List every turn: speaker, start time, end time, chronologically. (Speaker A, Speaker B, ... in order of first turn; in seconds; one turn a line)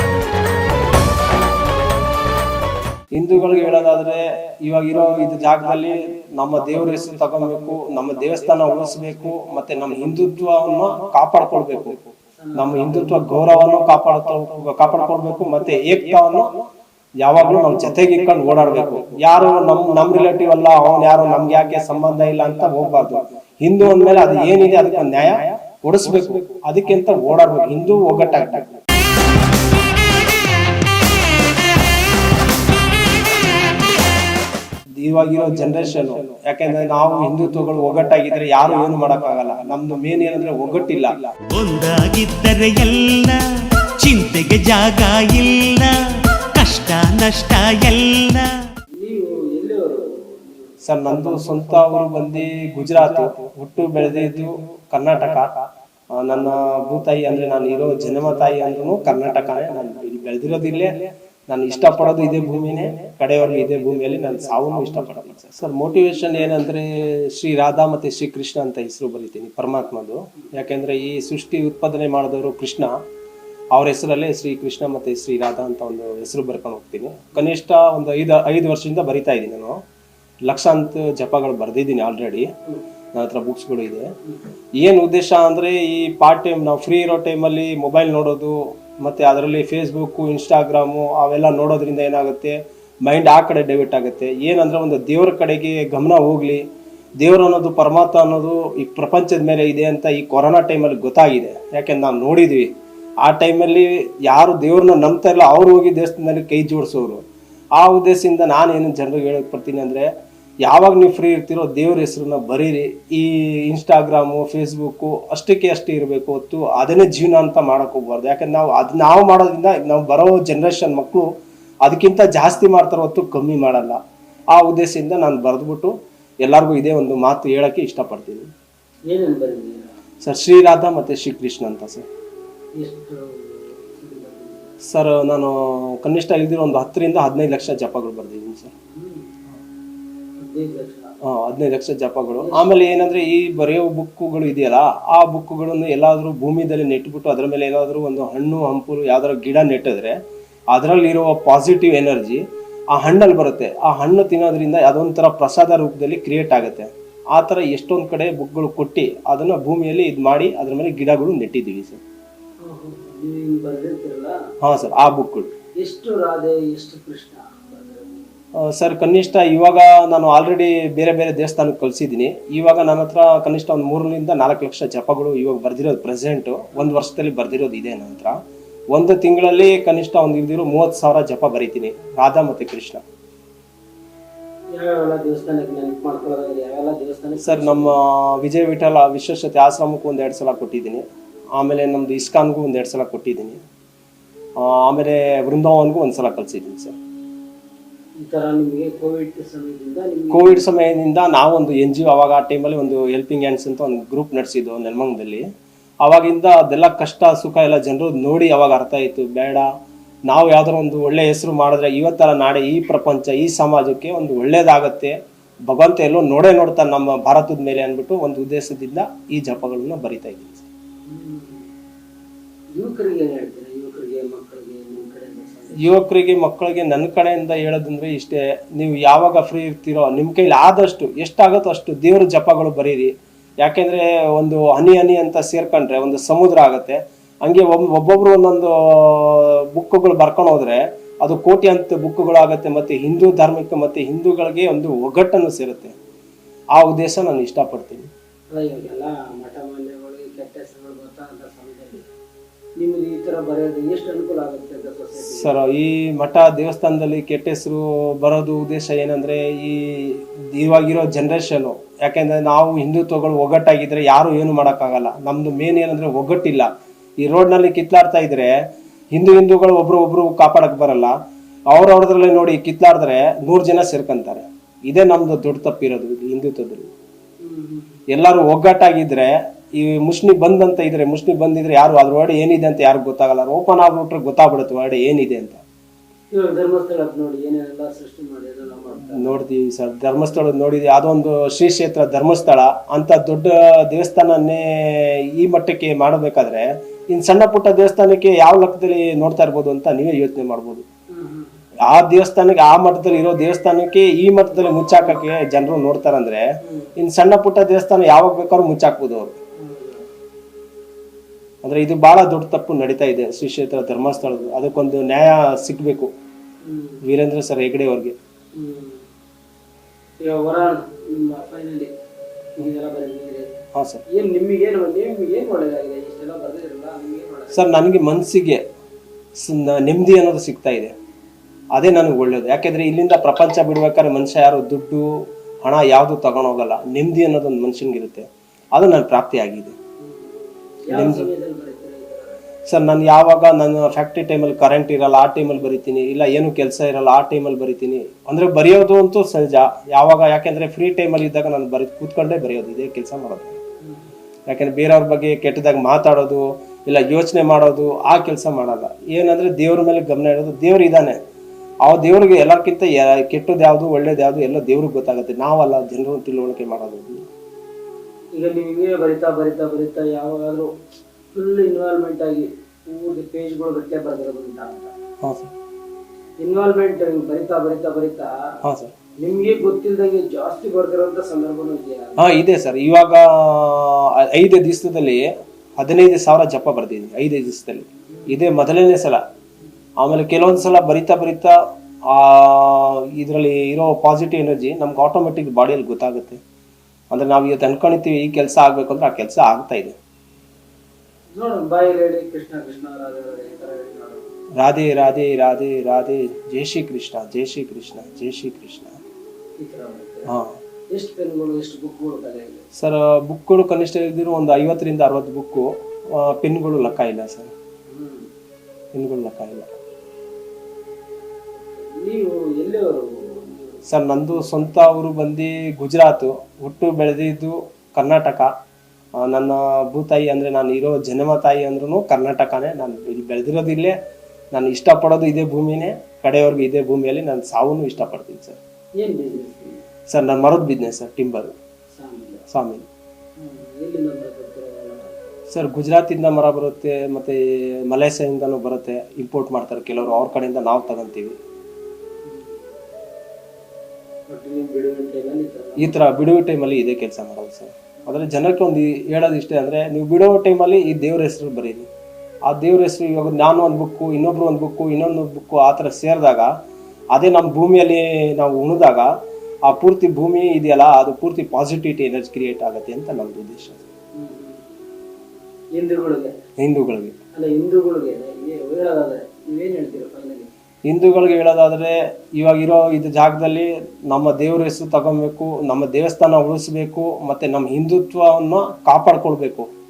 Speaker A: 3.1-12.0
Speaker B: 12.4-13.2
Speaker A: 12.5-16.6
Speaker A: 17.2-28.8
Speaker A: 35.0-41.3
Speaker C: 41.5-43.4
Speaker C: 44.0-46.0
Speaker C: 46.5-48.5
Speaker B: 48.9-50.8
Speaker A: 50.8-55.5
Speaker B: 51.3-51.6
Speaker A: 56.1-72.9
Speaker A: 73.7-79.8
Speaker A: 80.5-82.5
Speaker A: 83.1-84.1
Speaker A: 84.8-96.6
Speaker A: 97.2-102.7
Speaker A: 103.2-107.2
Speaker A: 107.8-110.1
Speaker A: 110.6-121.3
Speaker A: 121.8-128.5
Speaker B: 129.1-129.9
Speaker A: 130.2-132.1
Speaker B: 132.8-134.7
Speaker A: 134.8-138.7
Speaker B: 138.9-139.3
Speaker B: 140.4-141.1
Speaker A: 141.2-150.2
Speaker B: 142.4-142.8
Speaker A: 150.7-162.0
Speaker B: 162.6-164.3
Speaker A: 164.6-165.5
Speaker B: 165.8-168.3
Speaker A: 168.6-178.4
Speaker A: 178.9-183.0
Speaker B: 184.7-188.0
Speaker A: 187.4-191.0
Speaker A: 191.6-193.6
Speaker A: 194.6-196.9
Speaker B: 198.2-200.7
Speaker A: 200.3-205.5
Speaker A: 206.0-209.7
Speaker A: 210.3-215.1
Speaker A: 215.7-220.7
Speaker B: 221.1-221.7
Speaker B: 222.8-225.9
Speaker A: 225.8-245.9
Speaker A: 246.8-248.1
Speaker B: 248.5-252.1
Speaker B: 252.8-255.6
Speaker A: 255.2-268.5
Speaker A: 269.1-271.1
Speaker A: 271.7-276.9
Speaker B: 277.4-278.0
Speaker A: 278.1-285.6
Speaker B: 286.3-289.4
Speaker A: 289.1-300.9
Speaker B: 301.1-301.6
Speaker A: 301.8-309.4
Speaker B: 306.6-306.9
Speaker B: 309.6-310.1
Speaker A: 311.6-316.1
Speaker B: 316.6-317.0
Speaker A: 317.0-318.1
Speaker B: 318.6-319.1
Speaker B: 320.2-321.9
Speaker B: 322.6-323.5
Speaker A: 323.7-324.0
Speaker B: 324.1-327.9
Speaker A: 327.5-328.6
Speaker A: 329.4-330.9
Speaker A: 331.7-339.8
Speaker B: 340.0-342.4
Speaker A: 340.9-341.3
Speaker A: 342.7-353.6
Speaker B: 353.8-354.1
Speaker A: 354.5-361.2
Speaker A: 361.8-367.3
Speaker B: 368.4-370.7
Speaker B: 371.3-374.9
Speaker A: 375.2-375.5
Speaker B: 376.4-378.6
Speaker A: 378.6-378.9
Speaker B: 379.2-382.2
Speaker A: 382.2-389.2
Speaker B: 388.1-388.4
Speaker A: 390.0-391.5
Speaker A: 392.1-396.4
Speaker A: 397.1-400.0
Speaker B: 401.3-404.2
Speaker A: 404.6-409.0
Speaker B: 409.6-410.3
Speaker A: 410.3-410.6
Speaker B: 410.9-412.6
Speaker A: 412.8-417.5
Speaker B: 417.9-418.2
Speaker A: 418.9-419.7
Speaker B: 421.6-423.9
Speaker A: 423.9-428.5
Speaker A: 429.2-433.9
Speaker A: 434.5-438.6
Speaker B: 439.0-439.8
Speaker A: 440.1-441.5
Speaker B: 441.9-442.4
Speaker A: 442.5-442.9
Speaker B: 443.4-445.2
Speaker A: 445.5-451.4
Speaker B: 452.2-452.6
Speaker B: 454.3-456.1
Speaker A: 455.8-461.9
Speaker A: 462.5-466.5
Speaker A: 467.1-469.1
Speaker A: 469.7-473.8
Speaker B: 474.2-474.7
Speaker B: 475.8-476.4
Speaker A: 476.6-477.2
Speaker B: 477.4-480.5
Speaker A: 480.9-489.7